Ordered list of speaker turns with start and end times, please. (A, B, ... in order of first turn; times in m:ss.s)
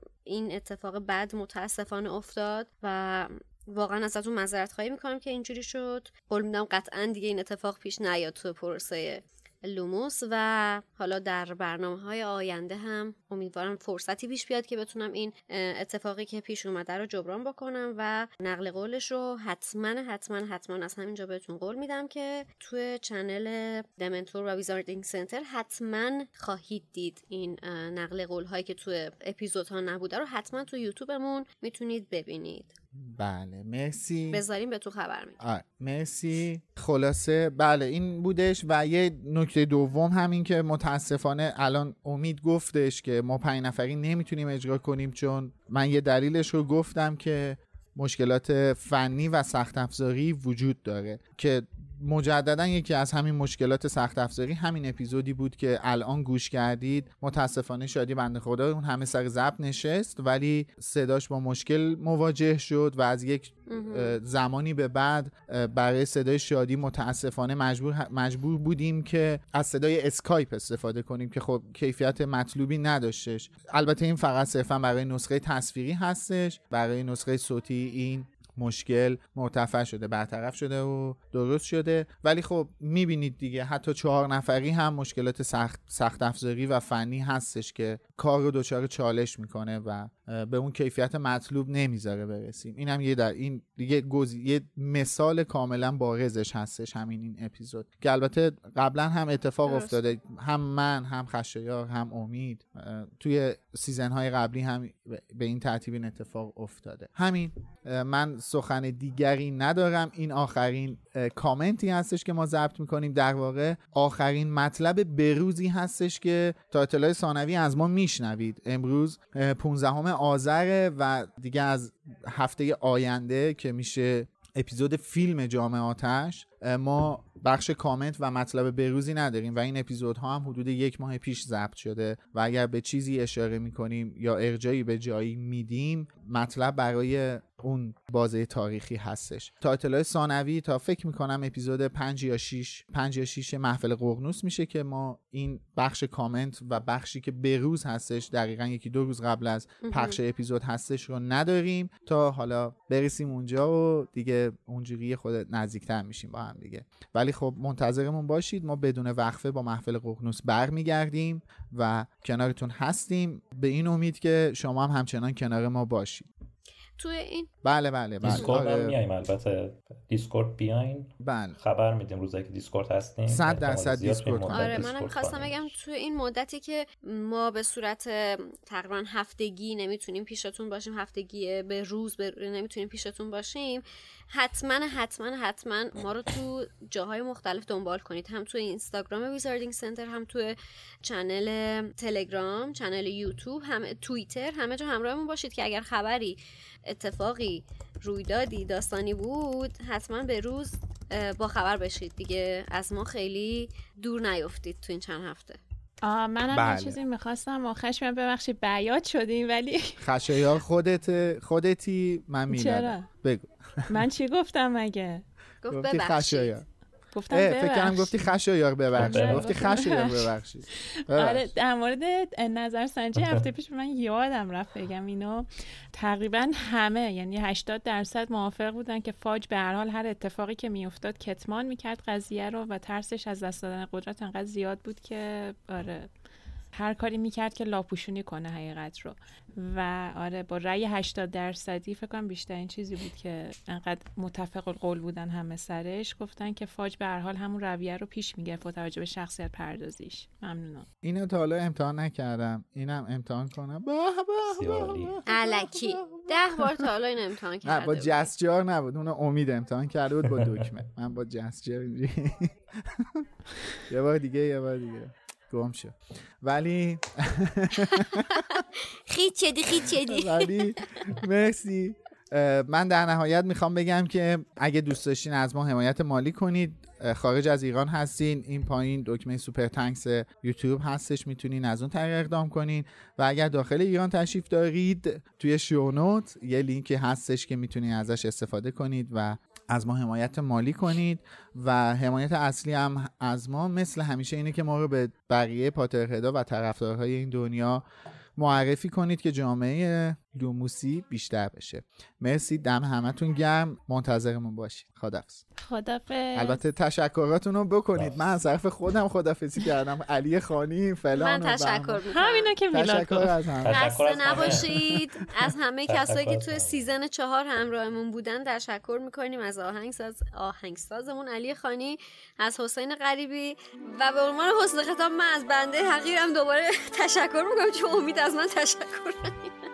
0:00.3-0:32.7 A
0:33.0-0:34.4 B
0:34.3-0:35.4 A
0:35.4-2:46.3 B
1:03.7-1:04.2 A
2:29.8-2:30.2 A
2:47.0-2:47.5 A
2:47.6-2:49.0 B
2:48.2-2:55.8 C
2:51.2-2:51.6 B
2:53.3-2:54.9 B
2:54.5-3:25.6 A
3:26.0-3:30.0 D
3:26.5-3:27.0 B
3:30.0-3:34.0 B
3:32.5-3:33.1 D
3:33.9-3:35.2 D
3:35.6-3:36.5 A
3:35.7-3:36.7 B
3:37.1-3:38.3 D
3:37.3-3:41.5 B
3:39.0-3:39.6 C
3:39.0-3:56.1 D
3:56.7-4:10.9 D
4:11.0-4:16.9 B
4:14.5-4:15.2 C
4:15.3-4:18.3 A
4:17.6-4:23.2 B
4:20.4-4:20.7 C
4:23.9-4:28.4 B
4:27.9-4:31.1 A
4:30.0-4:57.8 B
4:58.4-5:05.4 B
5:05.6-5:06.6 D
5:06.3-5:12.0 B
5:07.9-5:08.2 C
5:11.2-5:12.5 A
5:12.1-5:13.4 D
5:12.7-5:13.8 B
5:13.6-5:15.0 C
5:13.7-5:29.5 A
5:15.9-5:16.9 C